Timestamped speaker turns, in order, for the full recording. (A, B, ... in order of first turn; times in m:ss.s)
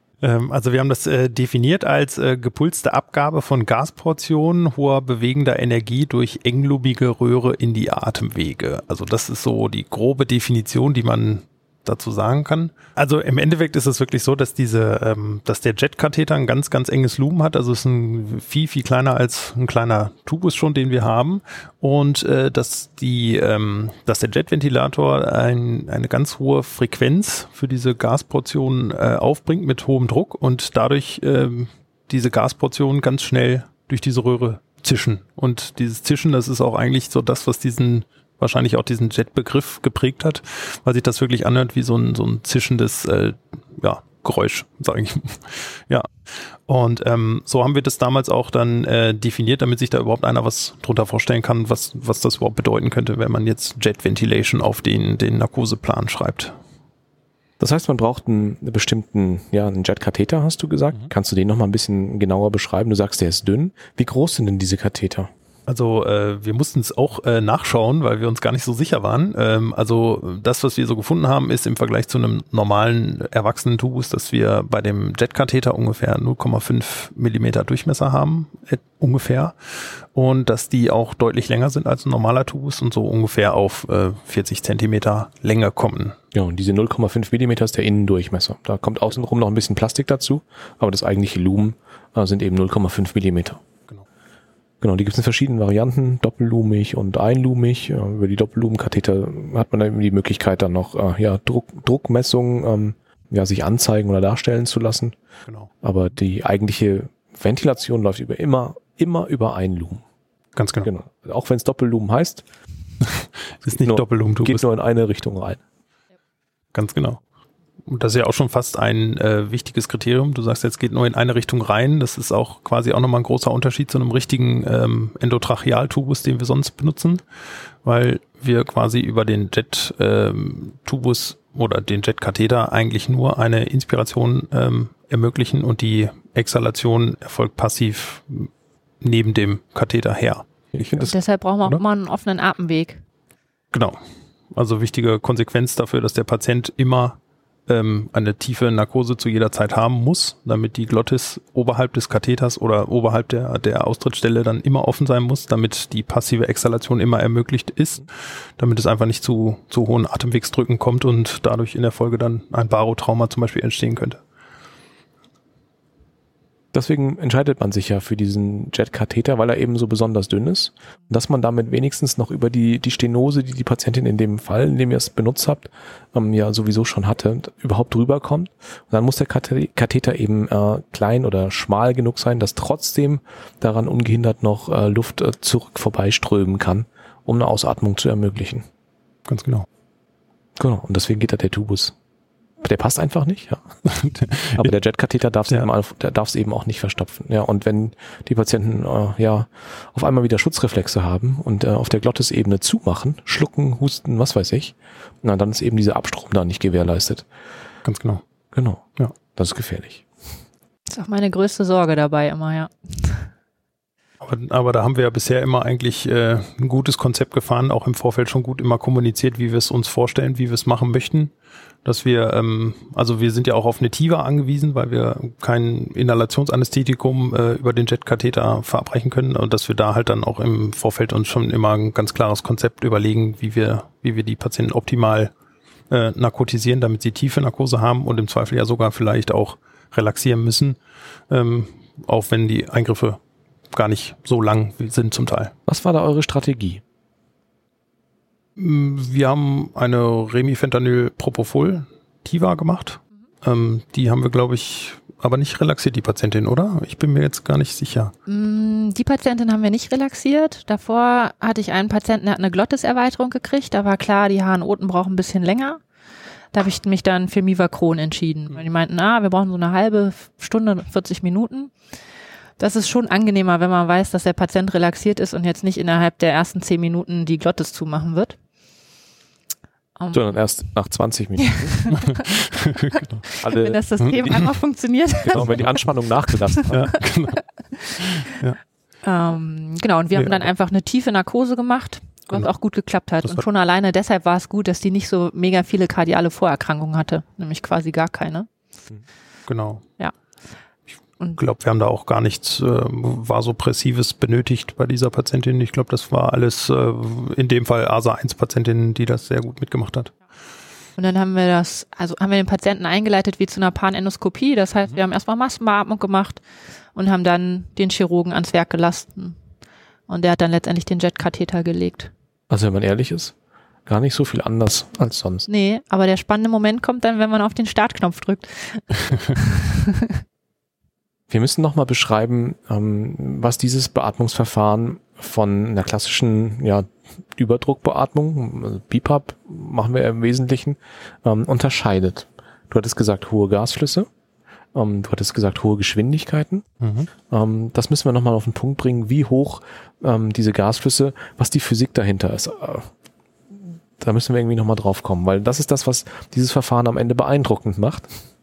0:00.2-0:46.1 A
0:46.7-0:56.6 A
0:57.6-1:05.3 B
1:05.7-1:26.2 A
1:26.3-1:33.6 B
1:34.8-1:45.2 B
1:45.8-1:50.0 B
1:50.6-1:50.9 A
1:50.8-1:52.4 B
1:53.0-1:54.6 A
1:53.7-1:55.6 B
1:56.7-1:57.2 A
1:57.8-2:07.2 A
2:07.8-2:18.5 A
2:19.0-2:21.1 A
2:21.0-2:23.0 C
2:23.7-2:24.0 A
2:24.5-2:38.1 A
2:38.6-2:44.2 A
2:46.7-3:08.7 B
3:09.3-3:09.7 A
3:10.6-3:11.9 B
3:12.6-3:13.6 B
3:13.8-3:14.6 A
3:14.6-3:27.3 B
3:27.8-3:28.2 A
3:28.5-3:30.1 B
3:30.9-3:33.3 C
3:34.2-3:41.3 A
3:41.8-3:55.3 A
3:55.9-4:00.8 A
4:01.3-4:03.2 A
4:03.7-4:05.5 A
4:05.7-4:06.8 B
4:08.6-4:18.1 A
4:18.3-4:25.8 C
4:26.5-4:31.7 C
4:32.6-4:38.4 C
4:40.0-4:40.3 C
4:40.1-4:41.8 B
4:41.4-4:42.3 C
4:41.9-4:43.2 A
4:42.9-4:45.5 C
4:43.4-4:43.8 B
4:44.0-4:44.5 A
4:45.2-4:46.7 B
4:46.6-4:47.0 C
4:46.7-4:47.4 A
4:47.7-4:48.2 C
4:48.0-4:48.6 A
4:49.0-4:58.5 C
4:50.2-4:50.4 A
4:59.5-4:59.8 A
5:01.3-5:10.1 A
5:11.0-5:16.4 C
5:16.9-5:19.4 C
5:20.1-5:22.1 C
5:22.5-5:23.3 B
5:23.8-5:25.5 B
5:25.5-5:30.2 C
5:31.3-5:44.1 B
5:44.7-5:46.7 B
5:46.8-5:47.1 A
5:47.3-5:52.9 B
5:53.5-5:58.1 B